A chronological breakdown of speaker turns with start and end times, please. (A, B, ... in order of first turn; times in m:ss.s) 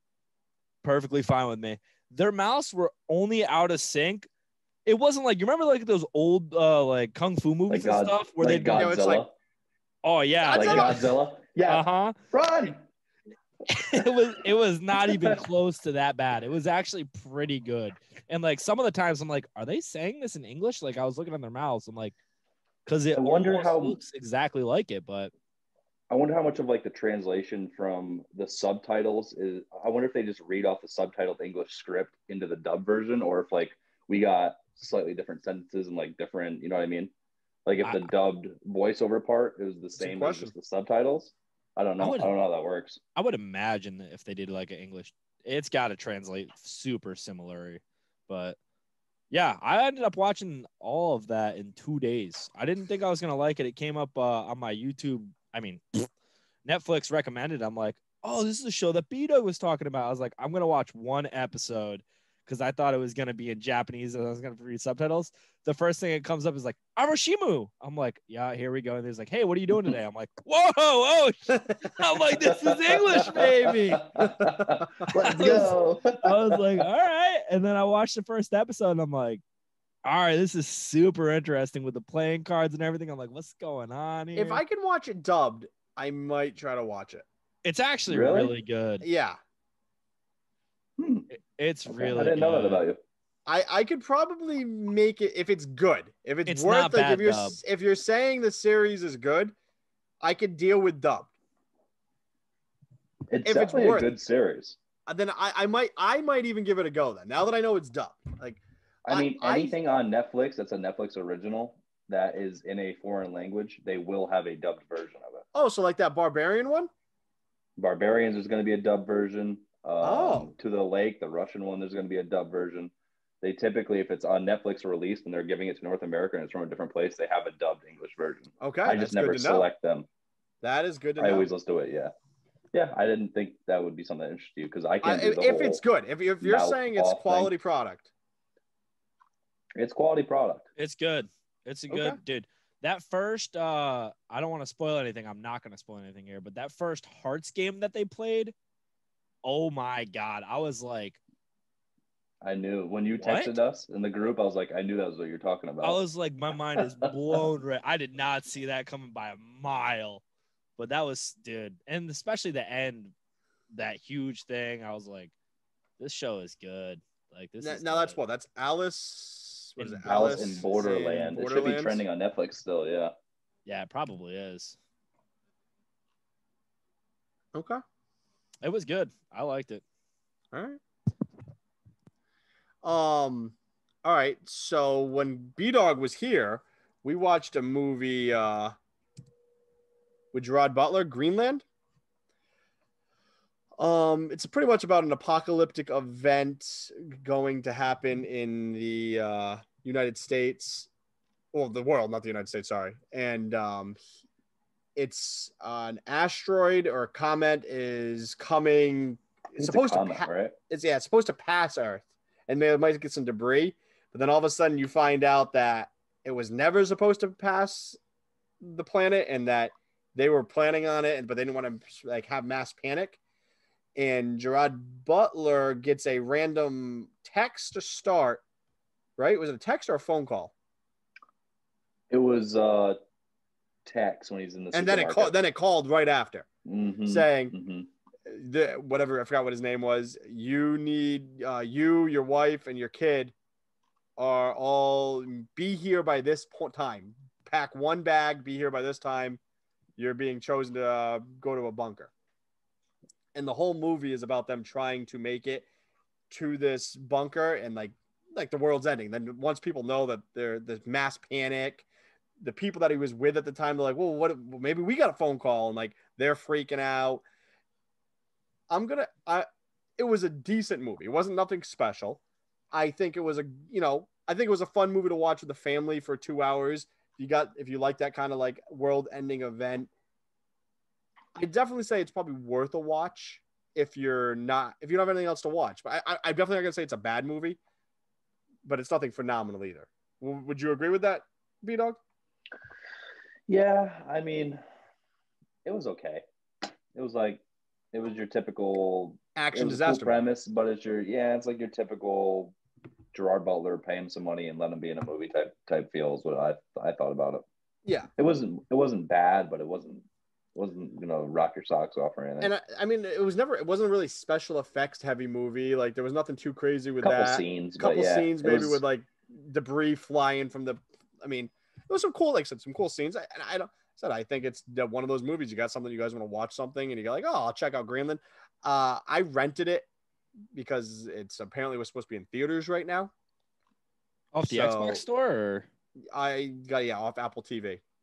0:00.8-0:04.3 A
0:04.8-0:08.9 A
0:07.7-0:09.3 B
0:08.8-0:09.2 C
0:10.0-0:11.1 A
0:10.4-0:11.0 C
0:10.5-0:12.8 B
0:11.6-0:12.2 A
0:13.7-0:22.2 A
0:15.0-0:15.4 B
0:22.8-0:25.3 A
0:23.1-0:24.0 B
0:26.1-0:37.1 B
0:37.6-0:43.0 B
0:37.8-0:38.1 A
0:40.0-0:40.5 C
0:42.0-0:42.3 A
0:43.2-0:48.6 A
0:49.3-0:56.1 A
0:56.6-1:14.2 A
1:12.3-1:16.9 B
1:14.3-1:15.7 C
1:15.1-1:19.4 A
1:20.0-1:24.6 A
1:24.3-1:27.2 C
1:27.6-1:29.0 A
1:28.1-1:28.5 B
1:29.0-1:29.4 C
1:31.0-1:31.3 B
1:31.3-1:32.8 A
1:31.9-1:33.0 B
1:33.5-1:39.5 C
1:36.5-1:37.6 A
1:40.2-1:41.3 C
1:43.3-1:44.8 B
1:43.4-1:44.1 C
1:45.1-1:49.7 C
1:49.0-1:55.4 B
1:55.5-1:56.9 C
1:57.8-2:10.1 B
2:00.0-2:00.5 C
2:08.6-2:09.7 C
2:10.6-2:11.5 C
2:11.2-2:12.1 B
2:12.7-2:15.8 B
2:15.0-2:18.1 C
2:16.4-2:17.5 B
2:19.8-2:20.6 B
2:20.8-2:28.5 A
2:21.9-2:22.2 C
2:29.4-2:31.2 A
2:32.4-2:36.0 B
2:33.2-2:33.5 A
2:35.8-2:40.2 A
2:36.8-2:37.4 B
2:40.8-2:43.1 A
2:43.7-2:45.3 A
2:46.0-2:48.2 A
2:47.6-2:52.0 C
2:49.8-2:50.7 A
2:50.0-2:53.1 B
2:53.6-2:54.8 A
2:57.5-2:57.8 C
2:58.6-2:59.8 A
3:00.5-3:00.8 C
3:02.8-3:08.7 C
3:10.3-3:11.6 C
3:13.8-3:20.9 C
3:21.5-3:24.0 C
3:25.0-3:38.0 C
3:29.6-3:30.5 B
3:38.6-3:43.2 C
3:44.0-3:48.4 C
3:49.2-3:50.5 C
3:52.1-3:53.0 B
3:53.8-3:55.3 B
3:54.7-3:56.5 C
3:56.6-3:57.9 B
3:57.0-3:57.5 C
3:58.3-4:03.3 C
4:04.2-4:09.4 C
4:10.0-4:12.1 C
4:13.3-4:15.7 C
4:16.3-4:21.8 C
4:22.4-4:27.2 C
4:28.7-4:29.4 C
4:30.0-4:32.2 C
4:32.7-4:39.9 C
4:41.3-4:47.6 C
4:48.6-4:52.0 C
4:53.5-4:54.6 B
4:55.6-4:56.2 B
4:56.9-4:57.4 B
4:57.9-5:02.5 B
4:59.4-5:00.2 C
5:03.1-5:07.4 B
5:08.2-5:12.5 B
5:12.4-5:29.9 C
5:17.0-5:18.8 B
5:30.5-5:33.1 C
5:34.3-5:35.7 A
5:34.4-5:35.0 C
5:36.1-5:37.8 C